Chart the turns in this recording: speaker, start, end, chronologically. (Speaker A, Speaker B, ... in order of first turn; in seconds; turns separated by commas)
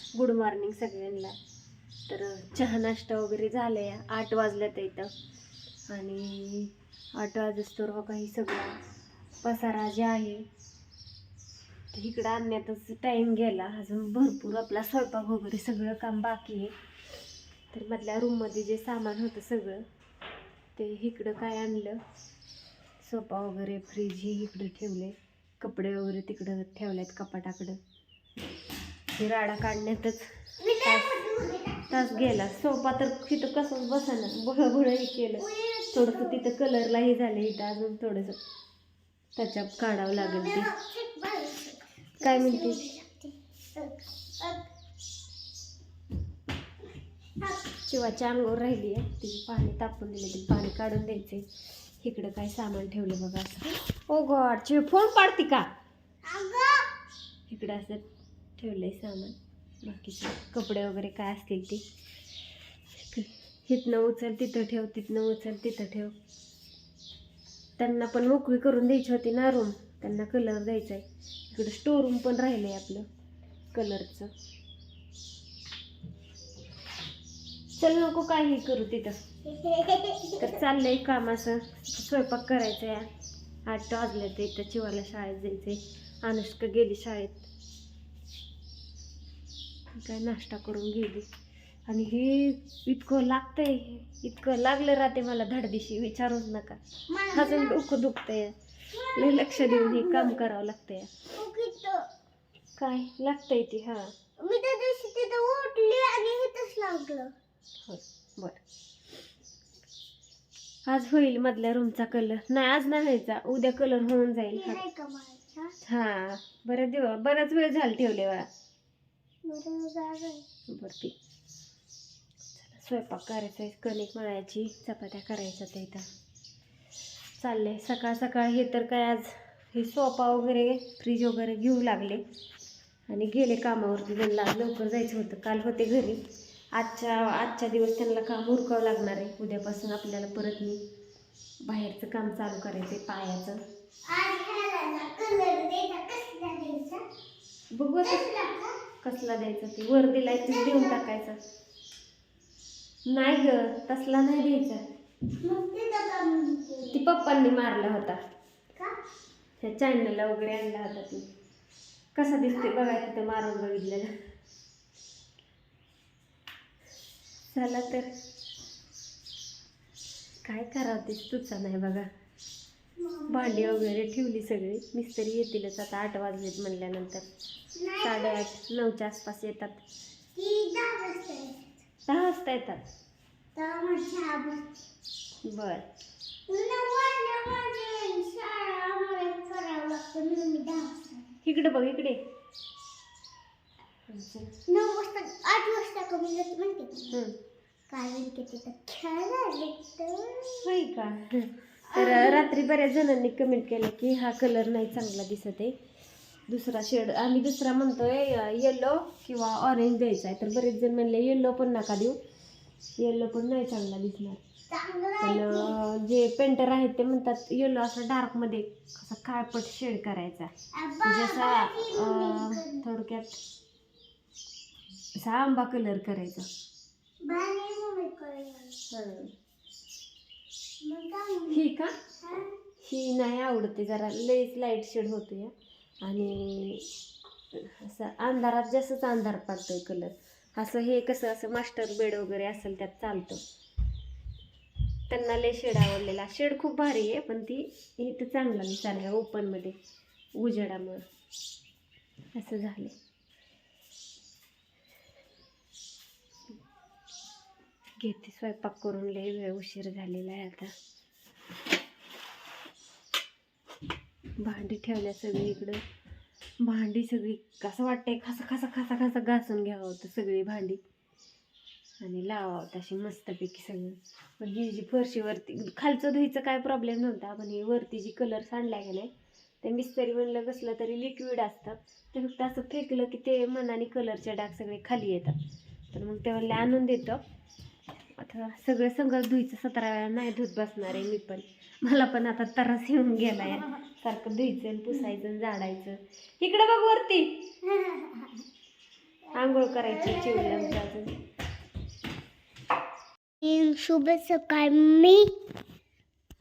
Speaker A: 0.1-1.4, Speaker A: 2.1-5.1, Speaker A: 5.9-8.8, Speaker A: 9.4-10.5, Speaker A: 11.9-16.7, Speaker A: 17.7-19.8, Speaker A: 20.8-22.0, Speaker A: 23.0-27.8, Speaker A: 29.2-30.3, Speaker B: 30.6-32.3, Speaker A: 30.8-31.1, Speaker A: 31.9-38.4, Speaker B: 35.4-36.4, Speaker A: 39.4-40.7, Speaker B: 40.2-44.7, Speaker A: 42.2-42.8, Speaker B: 47.4-47.7, Speaker A: 47.9-51.5, Speaker A: 52.0-55.7, Speaker B: 56.2-56.9, Speaker A: 57.5-58.0, Speaker A: 58.6-61.8, Speaker A: 62.9-66.1, Speaker A: 67.8-73.1, Speaker A: 73.7-74.3, Speaker A: 77.7-79.2, Speaker B: 79.4-80.6, Speaker A: 80.4-83.1, Speaker A: 83.7-87.5, Speaker A: 90.0-91.3, Speaker A: 91.9-96.8, Speaker B: 97.1-97.8, Speaker A: 97.3-98.5, Speaker B: 98.9-100.4, Speaker A: 99.1-101.1, Speaker B: 101.3-102.1, Speaker A: 102.8-104.1, Speaker B: 104.4-107.3, Speaker A: 107.9-108.6, Speaker A: 110.9-114.8, Speaker B: 114.5-115.8, Speaker A: 115.8-118.5, Speaker B: 119.4-120.5, Speaker A: 120.7-121.1, Speaker A: 122.6-126.0, Speaker A: 127.4-132.2, Speaker A: 133.1-136.2, Speaker A: 136.8-140.8, Speaker A: 141.6-143.6, Speaker B: 144.1-147.0, Speaker A: 147.7-148.3, Speaker B: 148.0-148.8, Speaker A: 149.0-151.4, Speaker B: 150.5-151.0, Speaker A: 153.1-154.8, Speaker B: 155.4-157.0, Speaker A: 156.9-158.2, Speaker A: 159.6-161.2, Speaker A: 162.2-164.1, Speaker A: 167.5-168.1, Speaker A: 170.4-172.1, Speaker B: 173.0-173.9, Speaker A: 173.3-177.3, Speaker B: 177.8-178.4, Speaker A: 178.0-179.8, Speaker B: 180.3-181.8, Speaker A: 182.1-182.8, Speaker B: 183.6-184.8, Speaker A: 185.5-185.8, Speaker B: 186.5-191.3, Speaker A: 191.4-192.2, Speaker A: 194.1-194.5, Speaker B: 194.7-197.2, Speaker B: 197.9-200.7, Speaker A: 200.6-205.8, Speaker B: 201.9-202.5, Speaker A: 206.5-212.2, Speaker A: 213.0-214.4, Speaker B: 214.7-215.8, Speaker A: 215.2-220.5, Speaker B: 220.7-222.8, Speaker A: 221.0-223.4, Speaker A: 225.2-226.5, Speaker B: 227.2-228.8, Speaker A: 228.9-229.3, Speaker B: 230.8-231.6, Speaker A: 231.5-231.9, Speaker B: 232.2-232.6, Speaker A: 232.8-235.5, Speaker A: 236.0-236.9, Speaker A: 237.5-243.4, Speaker A: 245.1-249.8, Speaker A: 250.4-251.0, Speaker A: 252.3-252.9, Speaker A: 258.0-260.7, Speaker A: 264.4-265.8, Speaker A: 266.6-270.8, Speaker A: 272.0-279.1, Speaker A: 279.6-285.4, Speaker A: 285.9-287.2, Speaker A: 288.2-297.4, Speaker B: 297.6-298.4, Speaker B: 299.3-300.8, Speaker A: 299.3-301.1, Speaker B: 303.4-305.3